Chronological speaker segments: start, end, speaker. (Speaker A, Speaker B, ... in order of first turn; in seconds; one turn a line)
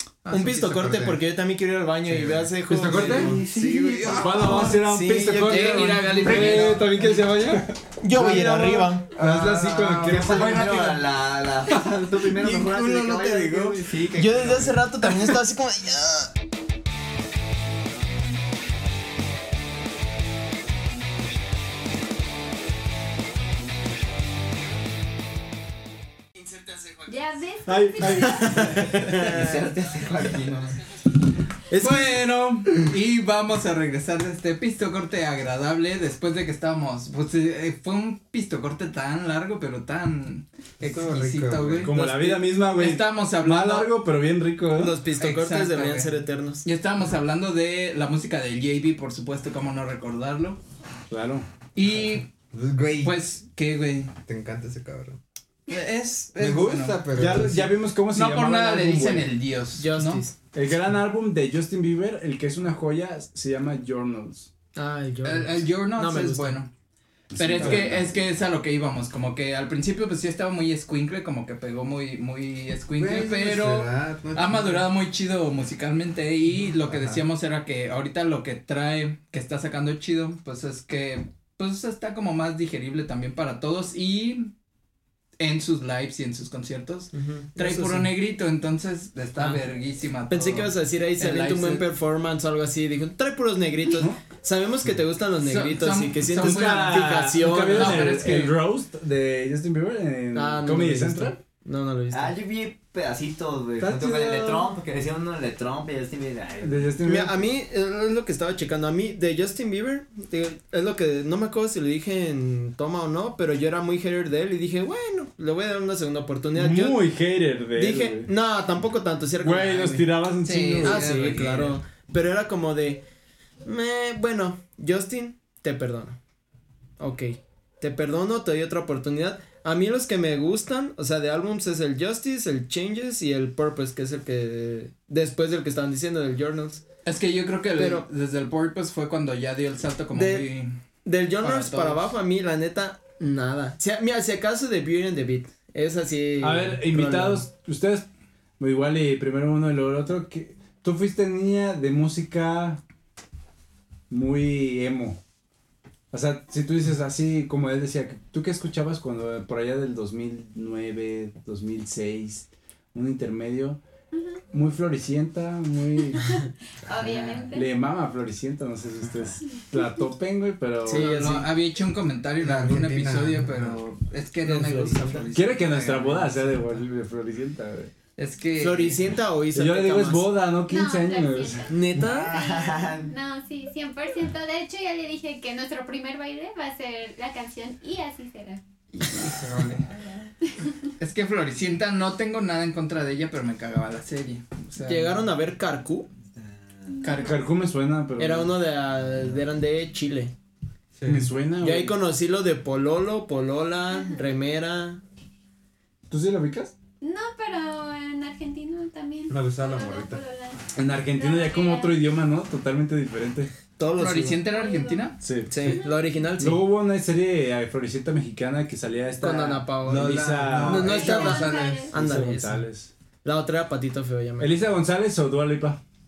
Speaker A: 0.3-1.2
Speaker B: 0.3-3.3
Speaker A: 2.1-4.8
Speaker C: 2.7-3.4
Speaker D: 2.9-4.8
Speaker C: 4.1-11.0
Speaker B: 4.4-6.1
Speaker E: 5.4-7.0
Speaker A: 6.2-6.9
Speaker D: 6.4-6.8
Speaker B: 8.0-9.1
Speaker A: 9.2-11.0
Speaker D: 9.9-14.8
Speaker A: 12.4-13.9
Speaker B: 14.1-16.3
Speaker F: 27.1-28.7
Speaker C: 27.7-29.1
Speaker B: 28.0-29.7
Speaker D: 28.8-30.8
Speaker B: 31.7-32.2
Speaker E: 31.8-41.9
Speaker A: 40.8-41.9
Speaker C: 41.8-45.0
Speaker B: 41.9-42.6
Speaker E: 42.7-43.9
Speaker B: 44.8-46.6
Speaker E: 45.2-50.6
Speaker C: 51.1-51.5
Speaker E: 51.8-52.3
Speaker A: 52.5-53.2
Speaker E: 53.0-54.1
Speaker A: 54.2-55.2
Speaker E: 55.7-57.2
Speaker A: 56.4-57.7
Speaker C: 57.1-59.3
Speaker E: 58.1-60.2
Speaker B: 59.8-60.4
Speaker C: 60.5-64.5
Speaker B: 64.8-66.6
Speaker E: 65.2-66.7
Speaker C: 67.3-68.0
Speaker E: 67.3-84.5
Speaker A: 73.0-74.8
Speaker A: 76.8-77.2
Speaker E: 85.4-91.9
Speaker B: 87.1-88.1
Speaker B: 90.3-98.1
Speaker E: 95.4-97.0
Speaker C: 96.3-101.4
Speaker E: 97.7-98.5
Speaker B: 100.3-102.3
Speaker D: 102.1-107.0
Speaker C: 103.8-104.7
Speaker C: 106.6-107.4
Speaker B: 107.0-117.0
Speaker C: 116.5-118.3
Speaker B: 117.8-120.1
Speaker C: 119.4-121.7
Speaker E: 120.4-121.7
Speaker B: 120.8-123.0
Speaker B: 123.6-126.2
Speaker B: 127.0-136.8
Speaker E: 137.1-140.7
Speaker B: 137.8-138.1
Speaker B: 140.1-140.5
Speaker B: 141.1-147.4
Speaker E: 141.4-142.1
Speaker C: 146.4-148.1
Speaker C: 148.6-152.8
Speaker C: 154.1-155.2
Speaker C: 156.1-163.8
Speaker F: 164.1-164.4
Speaker C: 164.5-166.3
Speaker F: 166.2-167.7
Speaker C: 167.3-171.2
Speaker B: 170.8-171.5
Speaker E: 171.0-175.9
Speaker A: 172.4-173.8
Speaker C: 174.4-177.9
Speaker B: 174.8-175.3
Speaker A: 175.6-176.4
Speaker E: 178.2-179.0
Speaker B: 178.6-180.3
Speaker C: 179.5-181.7
Speaker F: 180.6-188.6
Speaker B: 181.7-182.3
Speaker D: 182.0-183.1
Speaker E: 189.0-189.9
Speaker E: 191.0-195.2
Speaker B: 194.8-196.1
Speaker F: 197.0-197.3
Speaker E: 197.0-197.3
Speaker C: 197.1-198.5
Speaker B: 198.2-200.3
Speaker A: 201.0-201.3
Speaker C: 201.1-202.0
Speaker B: 201.6-205.0
Speaker C: 206.1-206.7
Speaker F: 207.0-212.1
Speaker A: 209.3-210.2
Speaker C: 210.8-213.5
Speaker B: 213.8-214.4
Speaker E: 214.0-215.2
Speaker F: 214.5-216.1
Speaker C: 215.2-215.8
Speaker B: 215.5-216.6
Speaker C: 216.4-221.1
Speaker B: 219.2-222.6
Speaker A: 219.9-221.9
Speaker F: 220.7-221.9
Speaker C: 221.9-222.9
Speaker B: 223.2-224.6
Speaker C: 224.4-225.8